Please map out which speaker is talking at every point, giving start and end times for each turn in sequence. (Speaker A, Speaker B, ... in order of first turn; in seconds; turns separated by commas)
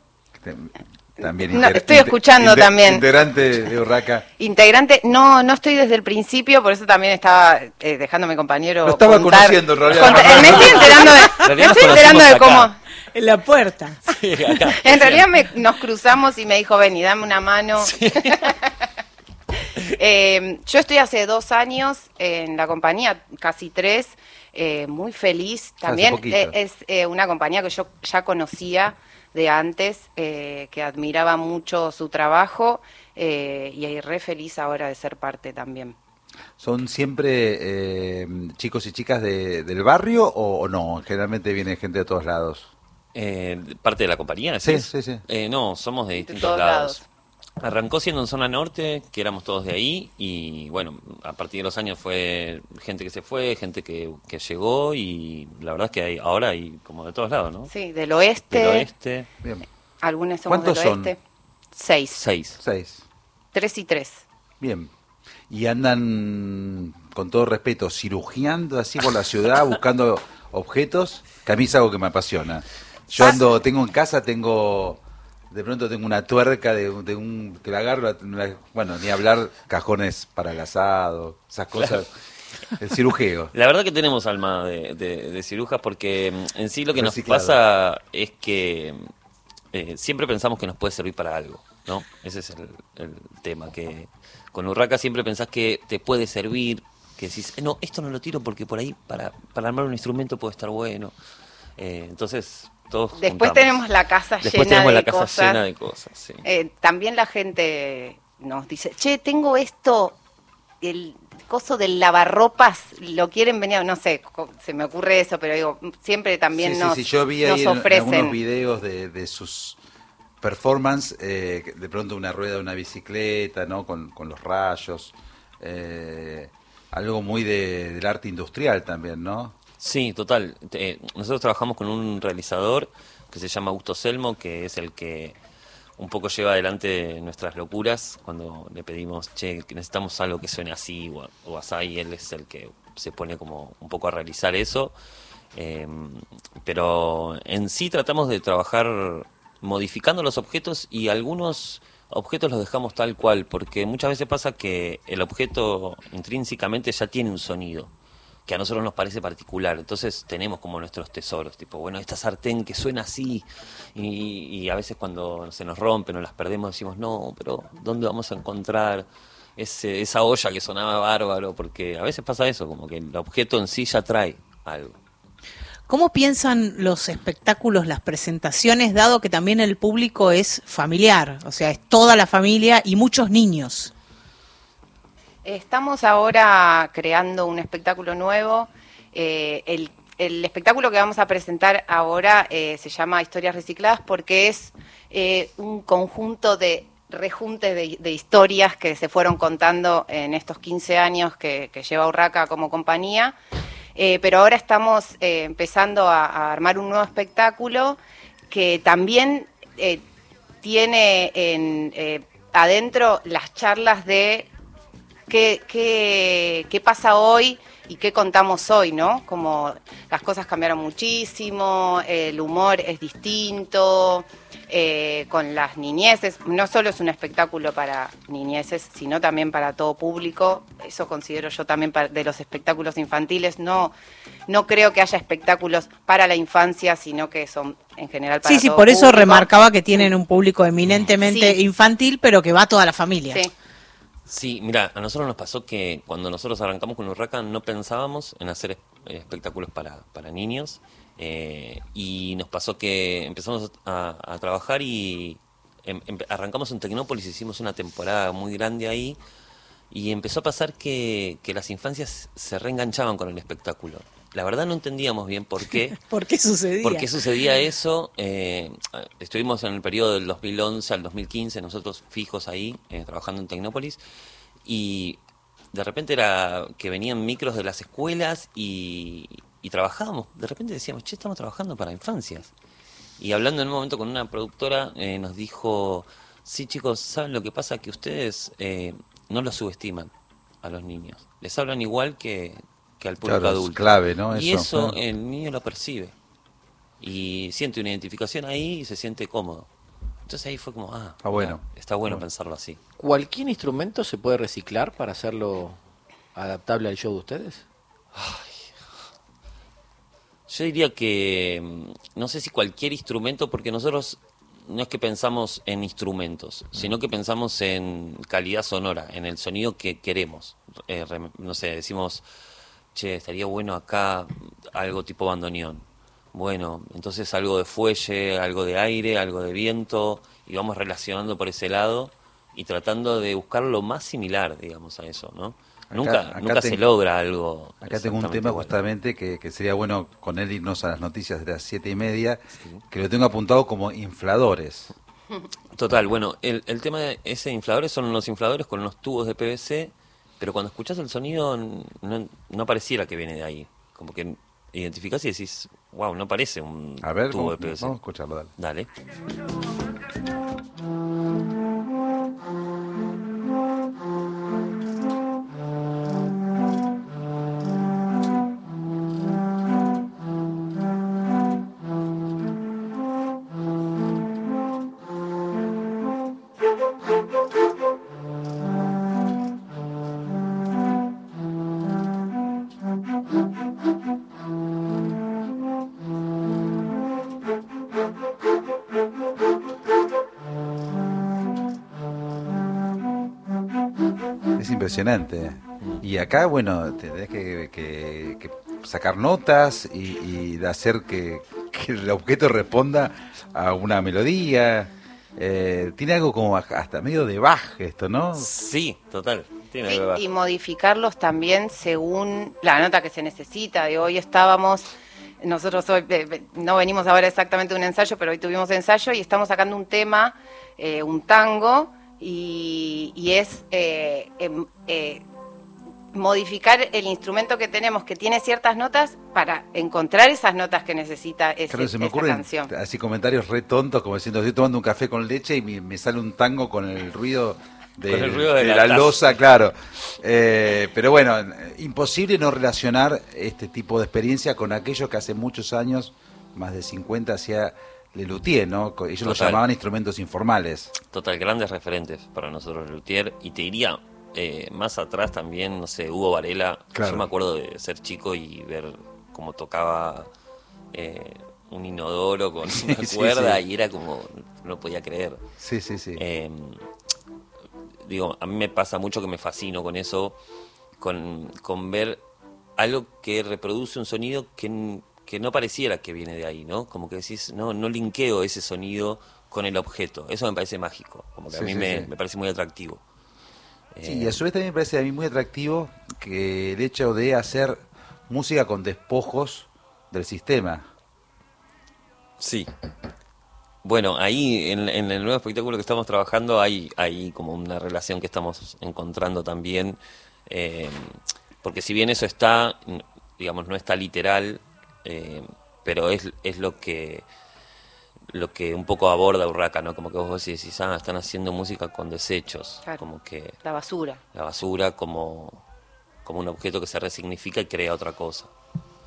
Speaker A: 0.3-4.2, Speaker B: 1.3-3.0, Speaker B: 4.4-12.8, Speaker A: 8.8-11.1, Speaker C: 9.9-12.7, Speaker D: 13.1-14.0, Speaker C: 14.1-15.3, Speaker B: 14.8-18.8, Speaker C: 17.8-18.5, Speaker B: 19.8-35.9, Speaker A: 25.8-26.5, Speaker A: 36.6-42.7, Speaker C: 43.1-47.0, Speaker A: 44.6-45.2, Speaker B: 46.1-47.0, Speaker C: 47.6-57.7, Speaker B: 57.7-58.9, Speaker C: 58.5-59.3, Speaker B: 60.0-61.2, Speaker A: 60.5-61.1, Speaker B: 61.7-62.2, Speaker C: 62.1-62.6, Speaker A: 62.6-63.0, Speaker B: 63.5-64.2, Speaker A: 64.6-64.9, Speaker A: 65.5-82.1, Speaker A: 82.8-83.5, Speaker C: 83.5-89.0, Speaker A: 86.9-87.6, Speaker C: 89.7-101.1, Speaker C: 101.8-103.8, Speaker B: 103.2-105.6, Speaker C: 104.4-106.4, Speaker B: 106.4-110.2, Speaker B: 110.8-118.4, Speaker A: 116.5-119.8, Speaker A: 120.4-129.5, Speaker C: 129.8-135.3, Speaker C: 136.0-144.9, Speaker C: 145.5-157.9, Speaker C: 158.4-175.0, Speaker D: 175.9-183.9, Speaker B: 185.4-203.3, Speaker B: 203.9-208.0, Speaker B: 208.5-210.0, Speaker B: 210.6-214.5, Speaker B: 215.3-233.9, Speaker B: 234.5-240.1, Speaker D: 238.4-243.4, Speaker C: 240.8-241.2, Speaker B: 241.2-241.6, Speaker C: 244.3-259.2, Speaker C: 259.9-266.0, Speaker D: 266.0-267.1, Speaker C: 266.8-274.0, Speaker C: 274.6-275.2, Speaker C: 275.7-282.5, Speaker C: 283.2-290.1, Speaker C: 290.6-296.1, Speaker A: 293.2-295.0, Speaker C: 297.0-299.7, Speaker C: 300.3-302.8, Speaker A: 301.2-302.2, Speaker E: 303.0-305.7, Speaker E: 306.4-307.6, Speaker C: 308.1-308.6, Speaker C: 310.5-322.2, Speaker C: 322.9-338.7, Speaker A: 335.9-336.8, Speaker A: 337.8-344.9, Speaker C: 345.7-357.9, Speaker A: 357.0-358.5, Speaker C: 358.6-358.9, Speaker A: 394.6-408.5, Speaker C: 408.3-410.2, Speaker B: 409.9-425.2, Speaker B: 426.1-432.7, Speaker A: 431.7-450.9, Speaker C: 438.1-439.4, Speaker C: 449.2-449.6, Speaker C: 451.1-460.3, Speaker A: 456.9-457.3, Speaker C: 460.9-465.4, Speaker A: 462.7-463.6, Speaker A: 465.6-466.2, Speaker C: 466.1-466.8, Speaker C: 468.0-470.4, Speaker C: 471.0-472.2, Speaker C: 472.8-483.0, Speaker A: 481.5-482.1, Speaker C: 483.9-484.4, Speaker A: 484.0-490.9, Speaker C: 492.4-492.7, Speaker C: 493.8-507.3, Speaker C: 508.3-513.6, Speaker B: 513.6-514.2, Speaker C: 514.3-515.6, Speaker C: 516.2-518.5